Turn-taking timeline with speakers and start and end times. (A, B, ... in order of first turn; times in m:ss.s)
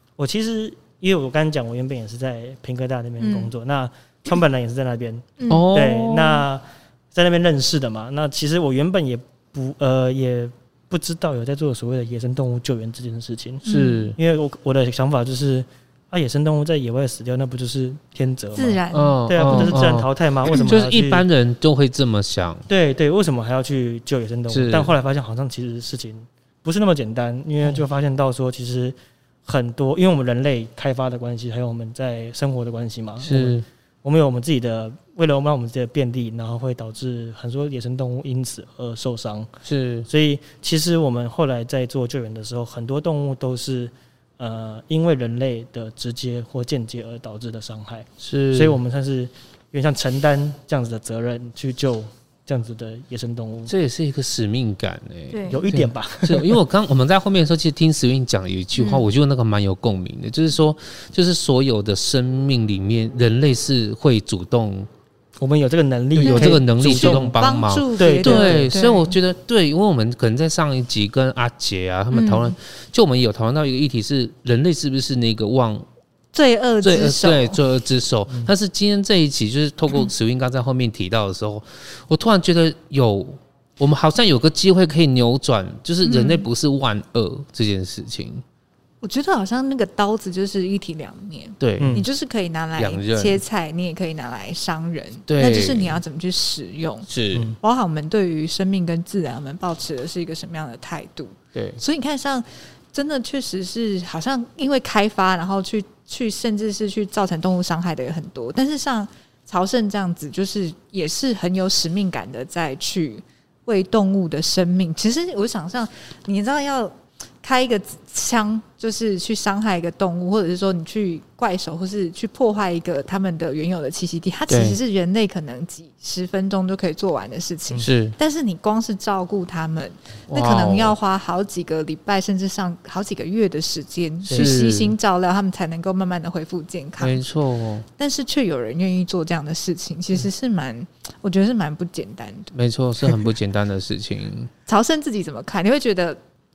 0:00.2-0:21.2 A
0:03.2-0:03.5 B
0:05.4-0:05.7 B
0:05.5-0:06.4 C
0:13.6-0:14.1 B
0:13.6-0:14.2 C
0:18.5-0:19.8 B
0:18.9-0:22.6 C
0:22.7-0:39.5 A
0:24.5-0:24.9 C
0:33.2-0:33.6 C
0:39.6-0:40.1 C
0:40.1-0:53.7 A
0:48.2-0:48.8 C
0:53.7-1:04.9 C
0:55.3-0:55.6 B
0:55.5-0:56.6 A
0:58.8-0:59.0 B
1:05.4-1:07.4 A
1:06.2-1:15.8 C
1:06.2-1:09.1 B
1:08.0-1:08.8 A
1:12.1-1:12.5 B
1:16.3-1:17.6 B
1:16.8-1:28.4 C
1:26.0-1:26.5 B
1:29.0-1:37.1 B
1:31.6-1:32.0 C
1:31.8-1:32.1 A
1:32.8-1:33.4 C
1:35.3-1:36.0 C
1:37.1-1:37.5 C
1:37.6-2:17.3 B
1:41.5-1:41.8 C
2:04.5-2:04.8 C
2:07.8-2:08.2 C
2:10.3-2:11.0 C
2:14.2-2:14.5 A
2:14.3-2:14.9 C
2:17.0-2:17.8 C
2:18.0-2:22.5 B
2:22.5-2:24.5 C
2:24.7-2:26.2 B